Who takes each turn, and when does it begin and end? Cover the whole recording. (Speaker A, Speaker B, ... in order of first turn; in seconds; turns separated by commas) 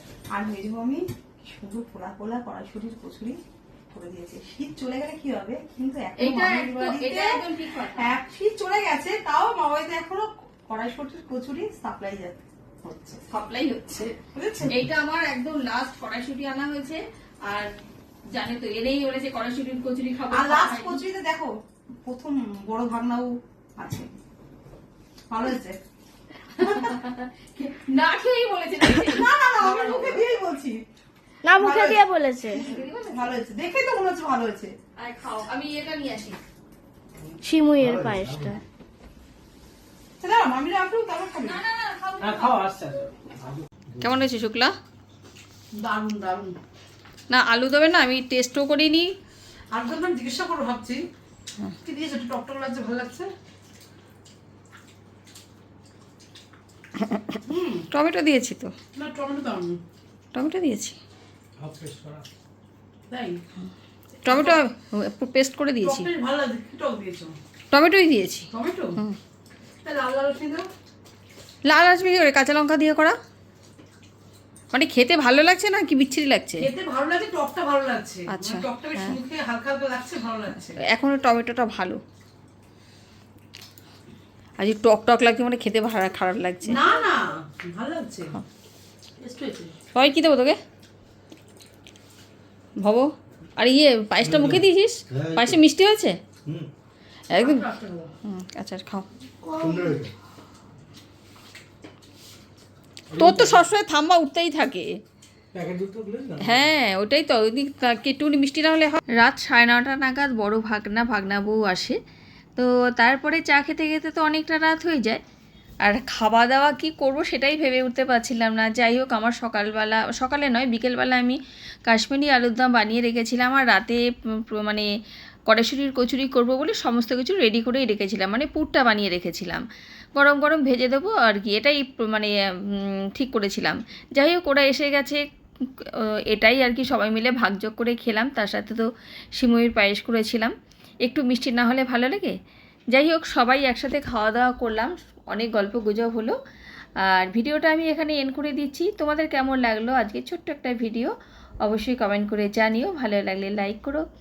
Speaker A: 0.3-3.4, Speaker A: 3.9-7.4, Speaker B: 6.2-8.1, Speaker A: 7.9-13.2, Speaker B: 13.3-14.1, Speaker A: 14.2-14.8, Speaker B: 14.7-17.7, Speaker B: 18.3-21.0, Speaker A: 20.3-24.1, Speaker A: 25.3-25.8, Speaker B: 26.5-30.3, Speaker A: 26.6-27.0, Speaker A: 28.9-30.8, Speaker C: 31.4-32.6, Speaker A: 31.5-34.7, Speaker B: 32.5-33.3, Speaker B: 35.0-36.4, Speaker D: 37.2-38.5, Speaker C: 37.4-38.6, Speaker A: 40.2-41.6, Speaker B: 41.4-42.7, Speaker D: 42.2-43.6, Speaker B: 44.0-44.7, Speaker E: 45.8-46.5, Speaker B: 47.3-49.1, Speaker E: 49.7-51.0, Speaker E: 51.8-53.3, Speaker B: 57.0-58.7, Speaker E: 57.5-57.8, Speaker E: 59.0-59.8, Speaker B: 60.3-61.0, Speaker D: 61.6-62.2, Speaker E: 63.1-63.4, Speaker E: 64.2-64.6, Speaker B: 64.2-66.1, Speaker E: 65.8-67.3, Speaker B: 67.7-69.2, Speaker E: 68.5-69.0, Speaker E: 69.8-70.7, Speaker B: 71.6-73.2, Speaker B: 74.7-76.7, Speaker E: 76.6-80.8, Speaker B: 78.3-79.2, Speaker B: 80.7-82.0, Speaker B: 84.6-87.0, Speaker E: 86.7-88.3, Speaker E: 89.2-89.7, Speaker B: 89.9-90.6, Speaker B: 92.8-96.2, Speaker D: 94.2-95.6, Speaker B: 97.3-97.7, Speaker E: 97.4-98.1, Speaker B: 98.2-99.1, Speaker D: 99.5-100.1, Speaker D: 103.1-103.6, Speaker B: 103.1-105.0, Speaker D: 105.5-106.6, Speaker B: 106.4-112.0, Speaker B: 112.5-115.2, Speaker B: 115.8-124.9, Speaker B: 125.5-129.6, Speaker B: 130.2-140.5, Speaker B: 141.0-142.3, Speaker B: 142.9-146.4, Speaker B: 147.0-151.1, Speaker B: 151.6-154.0